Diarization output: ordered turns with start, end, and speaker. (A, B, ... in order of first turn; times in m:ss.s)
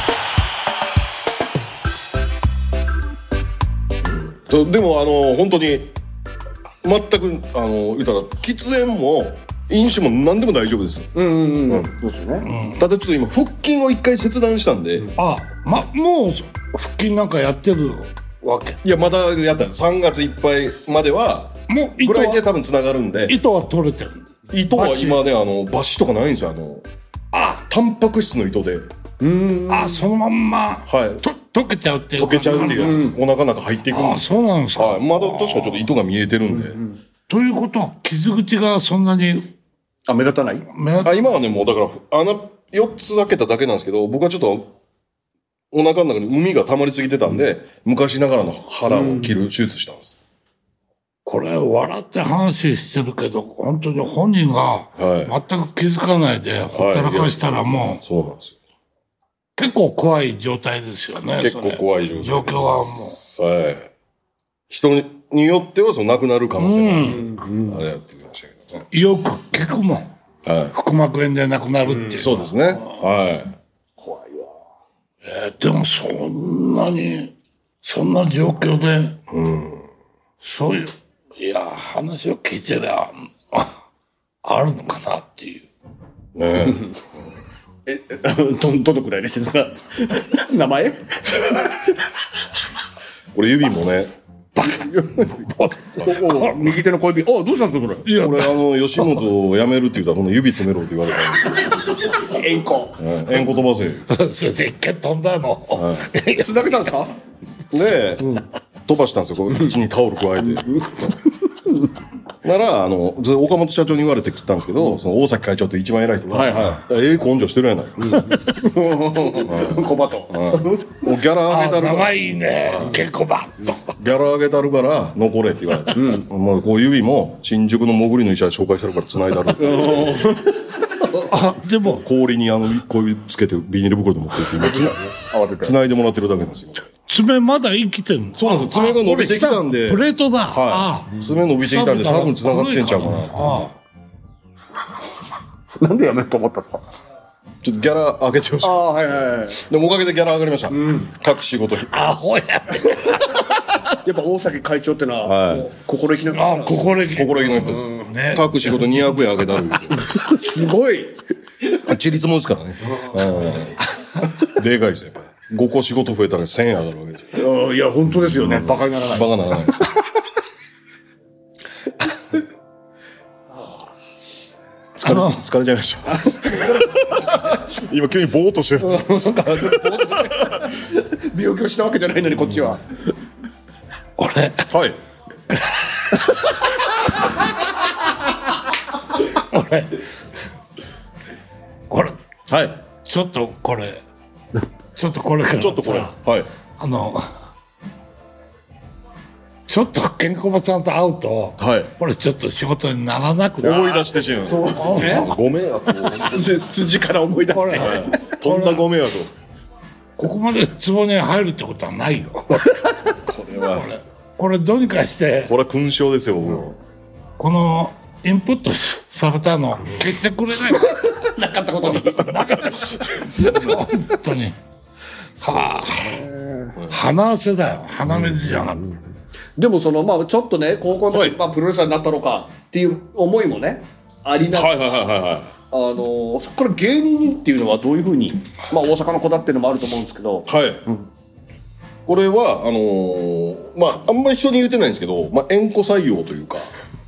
0:04.2-0:05.9 A
0:06.8-0:11.1 A
0:11.1-0:12.5 B
0:12.4-0:12.8 C
0:12.7-0:15.1 A
0:15.1-0:18.8 C
0:18.8-0:23.4 A
0:21.7-0:22.4 C
0:23.3-0:25.2 C
0:24.5-0:28.9 A
0:29.2-0:30.0 B
0:29.7-0:33.1 C
0:30.9-0:31.2 A
0:32.2-0:36.8 A
0:32.4-0:33.1 B
0:33.9-0:35.9 C
0:37.3-0:39.5 C
0:40.1-0:40.6 B
0:40.7-0:41.3 C
0:41.0-0:44.7 A
0:45.7-0:50.2 A
0:48.9-0:49.4 B
0:51.2-0:58.0 C
0:55.0-0:55.3 A
0:56.7-0:57.5 A
0:58.0-0:58.6 A
0:59.6-1:03.2 C
1:01.4-1:03.8 A
1:04.7-1:08.8 A
1:06.6-1:07.3 C
1:07.2-1:07.8 B
1:08.9-1:10.1 C
1:10.4-1:10.7 A
1:10.7-1:12.4 C
1:12.1-1:13.5 A
1:14.0-1:14.5 B
1:15.2-1:19.2 C
1:19.3-1:19.8 A
1:20.4-1:23.7 C
1:24.4-1:25.7 C
1:26.3-1:26.8 A
1:27.8-1:31.6 B
1:33.3-1:34.1 A
1:34.6-1:36.7 C
1:34.6-1:35.4 B
1:36.0-1:38.1 B
1:38.0-1:39.2 C
1:38.1-1:41.7 A
1:42.0-1:43.0 B
1:43.0-1:44.0 A
1:44.1-1:47.1 C
1:45.8-1:46.1 A
1:46.4-1:47.1 B
1:47.7-1:51.1 A
1:50.5-1:51.7 B
1:52.4-1:58.2 A
1:56.3-1:56.8 B
1:58.1-2:01.0 B
1:58.1-1:58.5 C
1:59.4-2:03.0 A
2:01.5-2:03.8 C
2:04.0-2:10.2 A
2:05.9-2:06.3 B
2:09.6-2:11.1 B
2:11.1-2:12.0 C
2:12.0-2:15.0 A
2:14.4-2:15.7 B
2:15.6-2:16.8 A
2:17.1-2:23.7 C
2:18.3-2:23.7 A
2:25.8-2:26.8 B
2:27.6-2:28.9 A
2:28.6-2:29.6 B
2:29.5-2:31.9 A
2:30.7-2:31.0 B
2:31.9-2:33.4 C
2:34.0-2:37.9 B
2:35.2-2:35.7 A
2:36.3-2:39.1 C
2:37.1-2:40.0 A
2:39.9-2:41.2 B
2:41.7-2:43.8 A
2:43.0-2:43.6 B
2:44.4-2:47.4 A
2:47.3-2:49.8 B
2:48.4-2:49.9 A
2:55.0-3:00.6 A
2:55.0-2:55.4 C
2:56.2-2:56.6 B
2:58.8-3:02.8 B
3:04.2-3:04.7 C
3:04.7-3:05.0 A
3:05.5-3:06.5 C
3:09.2-3:10.0 C
3:11.9-3:12.1 C
3:12.5-3:12.8 A
3:13.0-3:14.0 C
3:14.9-3:16.1 C
3:15.6-3:16.5 A
3:16.8-3:17.2 C
3:19.7-3:24.0 C
3:21.6-3:21.9 A
3:23.6-3:26.5 A
3:23.7-3:25.3 B
3:24.8-3:25.3 C
3:26.0-3:28.3 B
3:27.5-3:28.8 C
3:27.7-3:29.3 A
3:30.2-3:32.8 C
3:33.2-3:33.9 A
3:33.8-3:35.5 C
3:35.5-3:36.8 A
3:37.4-3:40.9 C
3:40.6-3:42.4 B
3:41.8-3:44.6 C
3:45.4-3:46.2 C
3:45.4-3:46.8 B
3:46.9-3:48.9 C
3:49.6-3:54.8 B
3:51.1-3:51.4 A
3:54.5-3:55.5 A
3:55.7-4:00.5 B
4:00.5-4:00.8 A
4:02.0-4:06.7 A